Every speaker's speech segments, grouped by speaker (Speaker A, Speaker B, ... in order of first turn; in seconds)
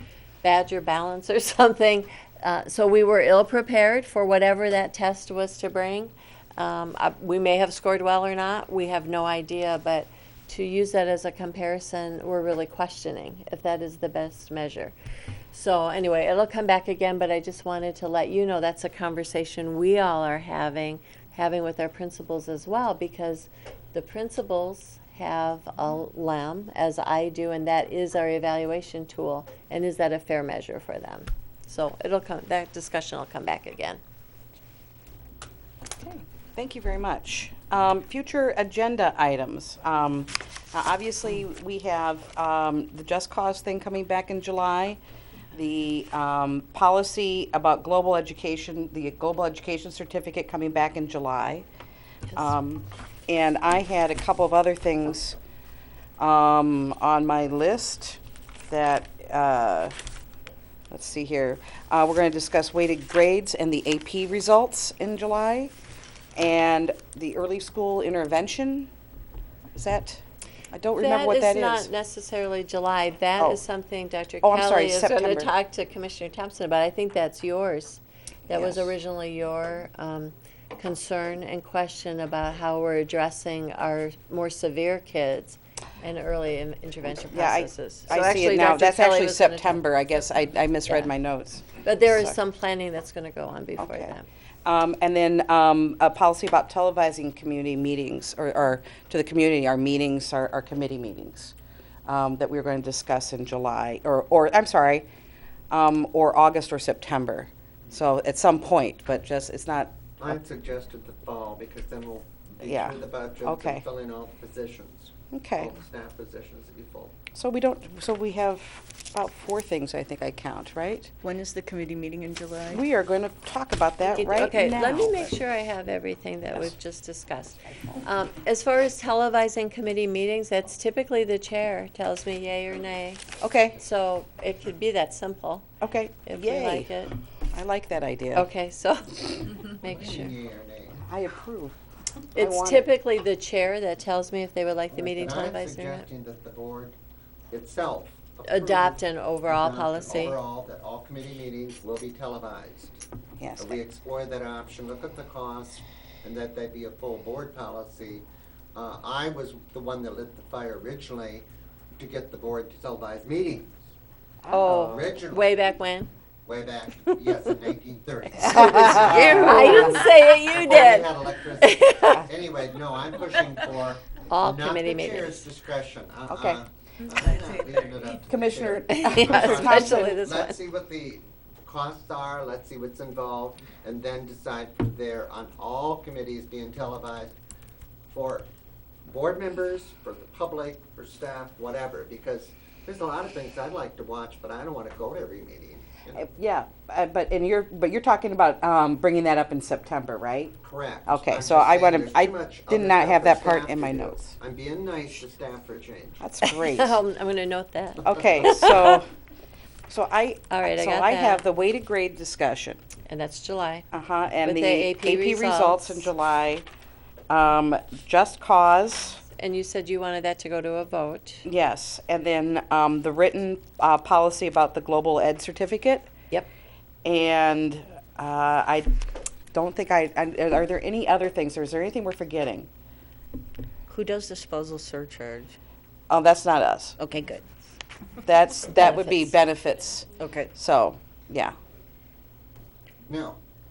Speaker A: 0.4-14.9, 15.5-34.0, 71.0-89.8, 91.8-94.2, 124.1-135.7, 136.2-137.1, 138.3-140.3, 142.3-146.1, 148.5-150.4, 164.5-166.1, 167.1-167.4, 168.4-172.2, 174.3-175.4, 178.9-180.6, 206.4-209.0, 210.5-211.4, 213.1-213.8, 214.4-216.1, 219.3-221.4, 238.8-239.3
Speaker B: 36.0-45.0, 45.5-51.6, 52.3-55.4, 56.2-59.9, 60.9-65.7, 66.3-68.9, 69.7-71.9, 74.4-75.5, 78.5-78.9, 87.2-92.3, 93.8-94.1, 94.6-101.5, 102.0-105.1, 105.7-110.4, 112.6-113.8, 115.3-115.7, 117.3-121.1, 122.7-125.3, 133.4-133.8, 135.8-136.9, 137.5-138.5, 141.0-141.8, 142.3-142.9, 153.4-153.8, 164.4-165.2, 168.4-170.0, 176.3-176.6, 178.1-180.2, 196.2-200.5, 201.1-204.3, 206.2-207.0, 208.0-209.1, 209.9-212.8, 213.9-216.7, 217.3-219.2, 221.4-226.1, 227.0-228.9, 229.5-232.7, 236.1-237.0, 238.2-241.5
Speaker C: 110.2-117.2, 139.8-141.0, 144.9-146.9, 147.5-153.0, 153.6-163.9, 164.7-165.5, 166.4-187.3, 188.1-188.5, 189.0-196.2, 200.6-206.2, 243.1-243.4
Speaker D: 121.2-122.8, 169.1-169.5, 177.1-178.1, 233.9-235.6, 237.0-237.4, 240.2-240.5